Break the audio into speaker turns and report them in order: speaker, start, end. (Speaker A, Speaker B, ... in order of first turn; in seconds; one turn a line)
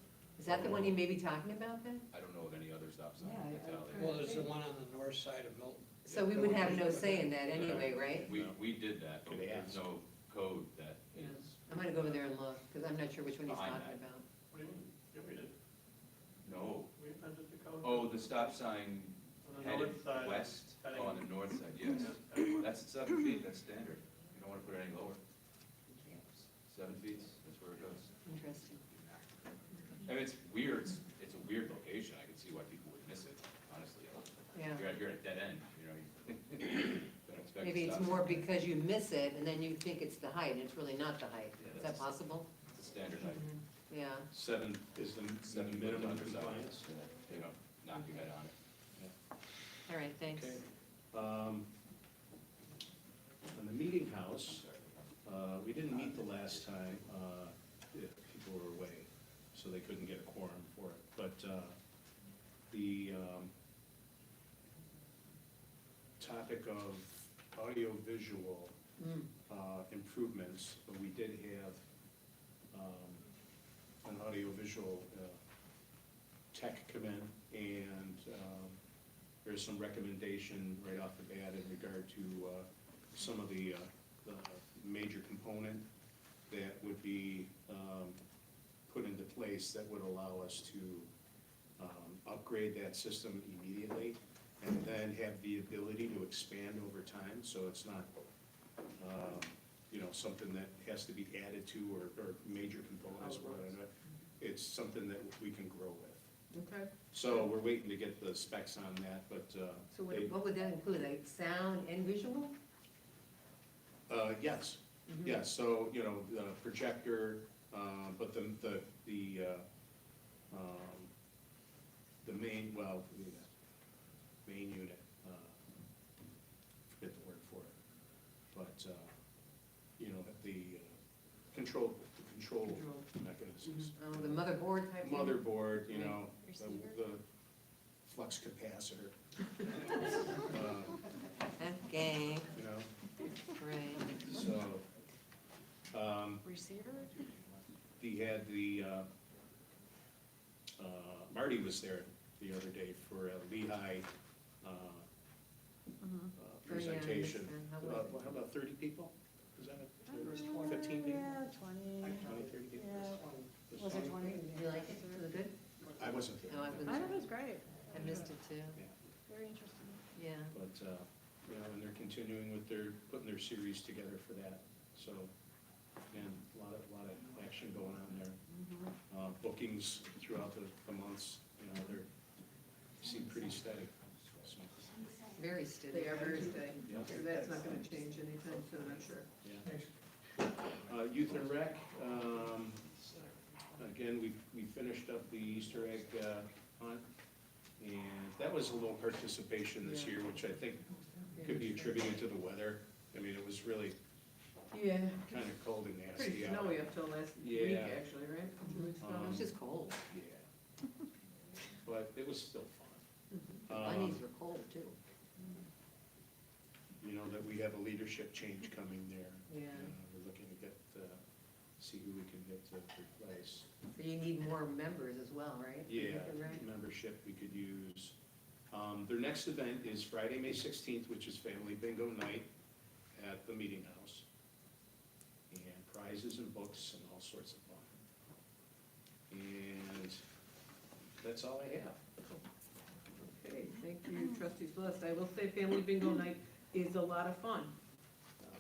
Speaker A: 0.4-2.1
Speaker B: 0.5-1.0
Speaker C: 2.1-4.4
Speaker D: 3.4-4.3
Speaker E: 4.0-7.3
Speaker C: 6.1-6.8
Speaker A: 6.1-8.3
Speaker C: 7.5-11.6
Speaker B: 7.5-8.6
Speaker B: 9.2-9.8
Speaker A: 11.2-14.2
Speaker C: 13.4-14.0
Speaker F: 14.5-15.5
Speaker C: 16.4-16.9
Speaker F: 17.0-18.4
Speaker C: 17.8-25.2
Speaker F: 19.4-21.3
Speaker C: 26.1-28.1
Speaker A: 28.3-28.8
Speaker C: 30.0-38.4
Speaker A: 34.5-34.9
Speaker A: 37.6-42.5
Speaker C: 41.6-42.1
Speaker C: 42.7-43.5
Speaker A: 43.2-44.3
Speaker B: 44.3-46.9
Speaker C: 45.4-48.5
Speaker A: 49.9-50.6
Speaker B: 50.3-51.7
Speaker B: 53.5-54.7
Speaker B: 55.2-61.8
Speaker B: 62.7-63.5
Speaker B: 66.2-68.8
Speaker A: 69.0-69.3
Speaker B: 69.5-71.8
Speaker B: 72.7-73.2
Speaker B: 74.0-75.4
Speaker B: 76.5-78.8
Speaker B: 79.4-85.8
Speaker B: 86.5-88.2
Speaker B: 88.9-91.1
Speaker B: 91.8-98.1
Speaker B: 99.0-106.3
Speaker D: 103.2-103.6
Speaker D: 106.5-106.9
Speaker B: 107.1-110.3
Speaker A: 109.9-112.5
Speaker B: 114.1-119.7
Speaker B: 120.5-121.1
Speaker B: 122.2-123.5
Speaker B: 124.5-125.6
Speaker B: 126.9-127.8
Speaker B: 128.5-129.1
Speaker B: 130.0-131.0
Speaker B: 131.5-137.2
Speaker A: 133.6-136.2
Speaker G: 136.4-136.9
Speaker B: 138.1-139.2
Speaker B: 140.0-141.0
Speaker A: 141.6-142.5
Speaker B: 142.5-142.9
Speaker A: 143.4-144.2
Speaker B: 144.1-144.8
Speaker B: 145.9-146.5
Speaker G: 146.4-147.2
Speaker B: 148.0-149.1
Speaker B: 150.8-154.1
Speaker B: 154.6-155.1
Speaker G: 156.0-156.3
Speaker B: 156.4-164.4
Speaker A: 156.7-158.2
Speaker G: 160.1-163.2
Speaker E: 160.2-160.8
Speaker E: 162.0-162.6
Speaker E: 163.2-163.6
Speaker G: 163.7-165.2
Speaker A: 164.3-165.6
Speaker B: 166.0-167.4
Speaker A: 166.4-167.3
Speaker G: 166.9-168.0
Speaker A: 167.9-168.8
Speaker G: 169.3-170.0
Speaker A: 170.2-170.6
Speaker B: 170.5-175.3
Speaker B: 176.1-178.4
Speaker B: 179.1-182.1
Speaker B: 183.0-185.2
Speaker A: 185.3-186.7
Speaker D: 185.9-189.3
Speaker E: 186.2-187.9
Speaker B: 186.8-187.1
Speaker B: 189.4-189.7
Speaker E: 189.6-189.9
Speaker B: 190.8-192.9
Speaker C: 193.1-193.3
Speaker B: 193.8-197.1
Speaker B: 197.8-204.0
Speaker A: 199.8-200.2
Speaker A: 201.3-202.0
Speaker B: 205.2-208.0
Speaker D: 206.1-209.3
Speaker A: 208.7-210.0
Speaker B: 209.0-209.5
Speaker B: 210.1-210.5
Speaker B: 211.8-213.0
Speaker A: 213.5-215.0
Speaker B: 213.7-214.2
Speaker B: 217.0-221.2
Speaker A: 219.5-219.9
Speaker B: 221.8-223.7
Speaker A: 223.9-226.6
Speaker B: 225.9-228.2
Speaker B: 228.7-232.5
Speaker B: 233.1-234.3
Speaker B: 235.5-237.9
Speaker B: 239.3-240.2
Speaker B: 241.2-242.0
Speaker D: 243.2-247.8